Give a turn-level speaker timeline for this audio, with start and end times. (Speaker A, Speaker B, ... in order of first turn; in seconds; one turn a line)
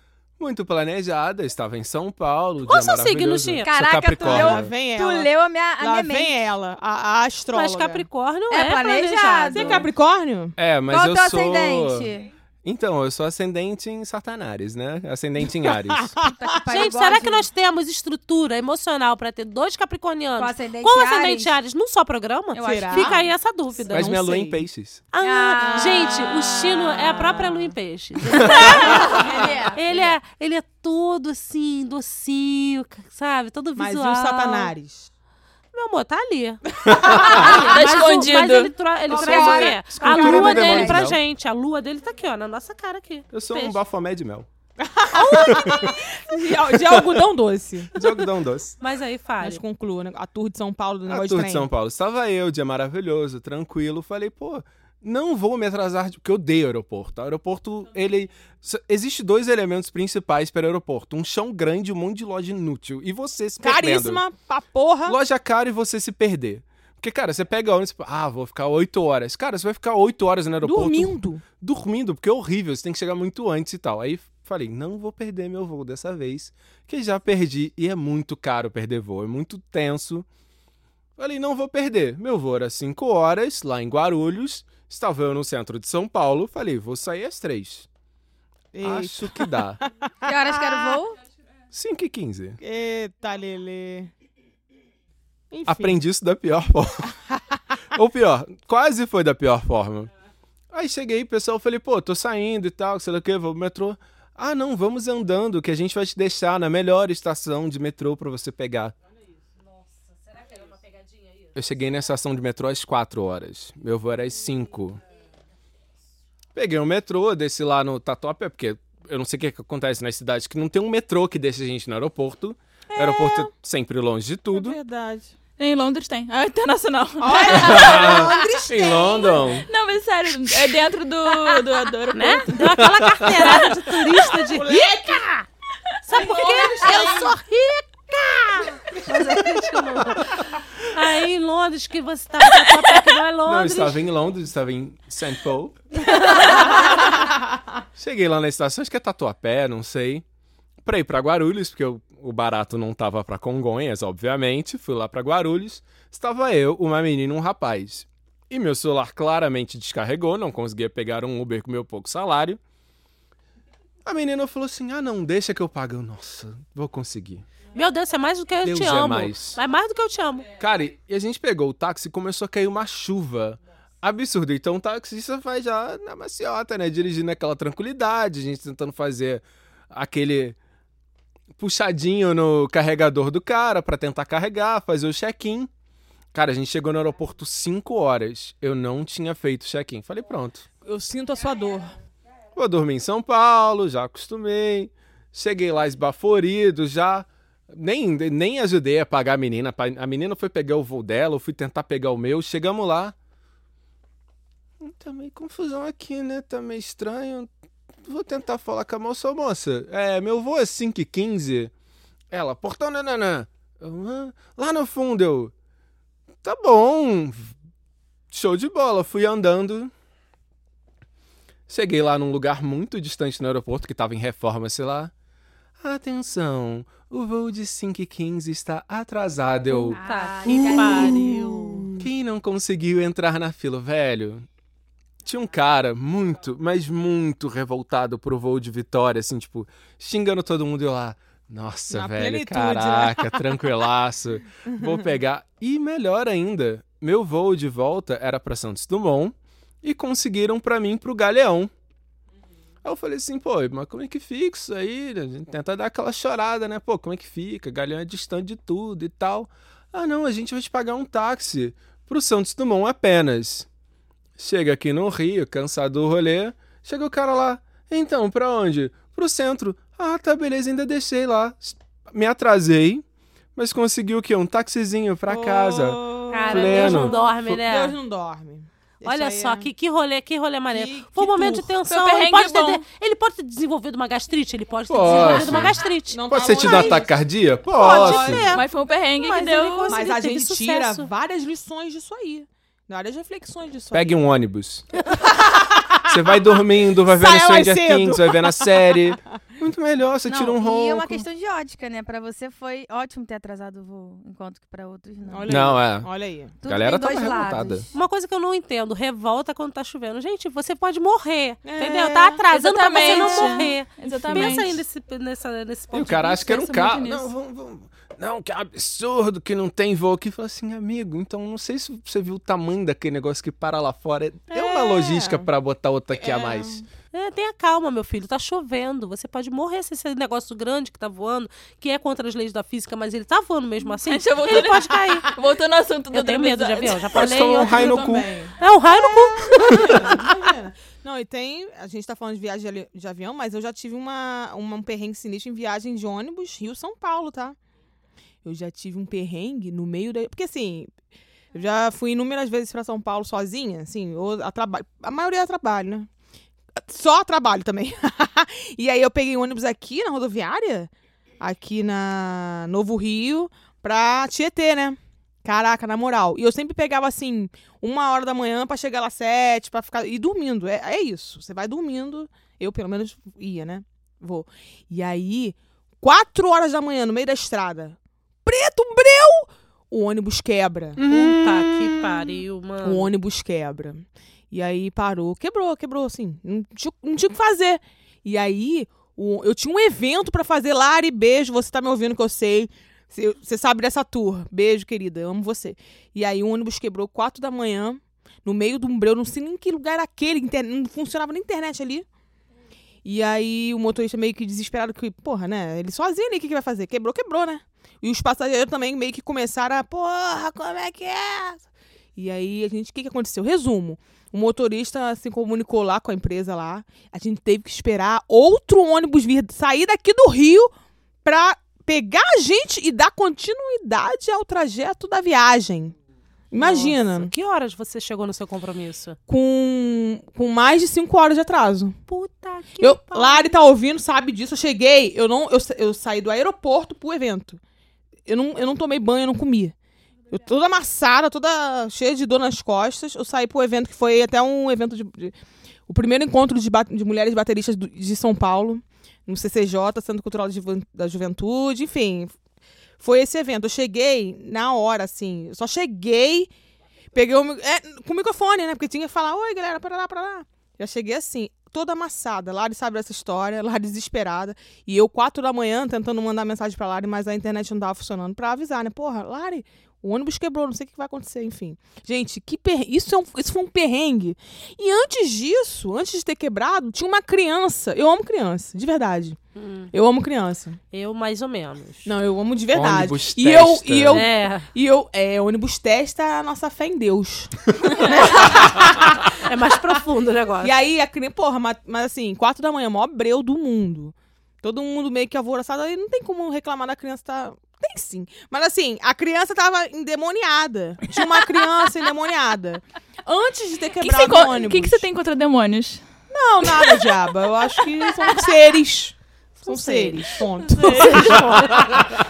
Speaker A: 0.4-4.7
Speaker B: 2.6-3.7
Speaker C: 3.6-6.4
Speaker D: 4.2-8.1
Speaker B: 7.5-9.9
Speaker C: 8.5-9.9
Speaker D: 9.5-10.6
Speaker A: 10.6-12.1
Speaker C: 10.9-12.3
Speaker A: 12.6-16.1
Speaker D: 15.9-16.8
Speaker C: 16.2-17.5
Speaker B: 16.7-24.2
Speaker C: 20.4-21.5
Speaker C: 22.5-23.2
Speaker D: 22.6-23.2
Speaker D: 23.8-24.6
Speaker A: 23.9-25.1
Speaker B: 25.1-29.2
Speaker C: 25.2-26.3
Speaker D: 25.6-26.2
Speaker C: 28.3-30.1
Speaker A: 28.4-29.1
Speaker D: 29.1-29.6
Speaker B: 29.7-34.7
Speaker D: 33.8-35.1
Speaker B: 35.7-43.8
Speaker D: 36.9-37.7
Speaker A: 36.9-37.5
Speaker E: 37.7-38.7
Speaker D: 39.1-40.6
Speaker C: 39.1-41.1
Speaker A: 39.9-41.2
Speaker A: 43.3-44.5
Speaker D: 44.8-48.0
Speaker B: 45.1-45.8
Speaker A: 45.3-45.9
Speaker A: 46.5-47.3
Speaker A: 47.9-48.8
Speaker B: 48.8-49.6
Speaker D: 49.4-51.7
Speaker A: 51.1-64.2
Speaker D: 63.6-65.2
Speaker A: 65.1-80.3
Speaker D: 70.6-71.4
Speaker A: 81.2-87.9
Speaker D: 88.7-91.0
Speaker A: 88.8-89.8
Speaker C: 90.2-91.2
Speaker A: 91.7-92.6
Speaker D: 92.6-94.1
Speaker D: 95.5-96.0
Speaker A: 95.7-97.1
Speaker A: 97.9-100.1
Speaker A: 100.7-109.0
Speaker A: 111.5-115.0
Speaker A: 116.5-124.8
Speaker D: 122.9-123.5
Speaker D: 124.5-125.3
Speaker E: 125.6-127.9
Speaker D: 127.2-129.5
Speaker A: 127.5-129.7
Speaker C: 128.1-128.7
Speaker E: 129.7-132.6
Speaker B: 132.1-135.5
Speaker A: 132.8-133.6
Speaker D: 134.4-135.3
Speaker B: 136.0-144.0
Speaker D: 136.1-137.3
Speaker D: 138.9-139.4
Speaker A: 143.5-146.4
Speaker B: 146.0-146.8
Speaker D: 146.7-147.2
Speaker A: 148.0-150.2
Speaker A: 150.8-162.6
Speaker A: 164.0-167.5
Speaker B: 167.7-170.5
Speaker A: 168.6-169.6
Speaker A: 170.6-180.6
Speaker A: 181.6-185.7
Speaker A: 186.3-190.7
Speaker D: 190.8-191.9
Speaker A: 192.6-203.2
Speaker A: 204.8-207.5
Speaker A: 208.0-211.7
Speaker A: 212.3-215.5
Speaker A: 216.4-217.5
Speaker A: 218.3-219.9
Speaker A: 221.7-225.1
Speaker A: 225.8-230.0
Speaker C: 229.8-231.8
Speaker B: 230.0-231.6
Speaker D: 230.5-232.1
Speaker A: 232.0-234.5
Speaker A: 235.2-251.7
Speaker D: 241.9-243.7
Speaker A: 252.8-263.7
Speaker A: 264.4-273.0
Speaker A: 273.6-277.2
Speaker D: 275.3-279.7
Speaker B: 276.3-278.0
Speaker B: 279.1-287.0
Speaker D: 280.7-281.7
Speaker E: 281.9-282.8
Speaker A: 284.9-285.8
Speaker D: 285.1-288.5
Speaker A: 286.3-288.5
Speaker B: 287.7-291.1
Speaker E: 288.5-290.0
Speaker D: 289.9-294.1
Speaker A: 293.9-294.9
Speaker D: 295.1-298.8
Speaker A: 296.1-301.2
Speaker C: 300.3-305.7
Speaker D: 305.3-306.6
Speaker A: 305.5-306.1
Speaker C: 306.6-307.9
Speaker A: 306.7-307.9
Speaker B: 307.9-316.6
Speaker D: 311.6-312.4
Speaker E: 312.5-314.8
Speaker D: 312.9-313.7
Speaker A: 315.9-326.8
Speaker E: 316.4-317.3
Speaker D: 324.5-325.5
Speaker D: 326.1-326.9
Speaker B: 327.1-335.3
Speaker E: 334.0-337.1
Speaker B: 336.1-340.2
Speaker A: 337.1-338.3
Speaker D: 337.2-347.6
Speaker A: 339.7-340.1
Speaker D: 348.4-350.9
Speaker D: 351.5-356.1
Speaker D: 356.8-382.3
Speaker B: 381.0-383.1
Speaker A: 381.0-381.3
Speaker D: 382.8-402.1
Speaker D: 403.0-420.7
Speaker D: 421.2-425.9
Speaker D: 426.5-427.3
Speaker B: 426.6-429.2
Speaker D: 429.3-432.0
Speaker B: 432.1-433.6
Speaker D: 432.8-437.6
Speaker D: 438.3-439.8
Speaker D: 440.3-445.4
Speaker D: 445.9-452.4
Speaker D: 453.0-456.5
Speaker D: 457.1-479.4
Speaker B: 479.6-479.9
Speaker D: 479.9-480.8
Speaker B: 480.9-482.1
Speaker D: 482.1-489.4
Speaker A: 482.7-484.3
Speaker B: 484.1-484.7
Speaker B: 489.4-490.7
Speaker D: 490.6-505.1
Speaker E: 504.0-506.0
Speaker D: 506.3-511.9
Speaker E: 506.7-507.1
Speaker B: 509.6-512.0
Speaker E: 510.8-511.2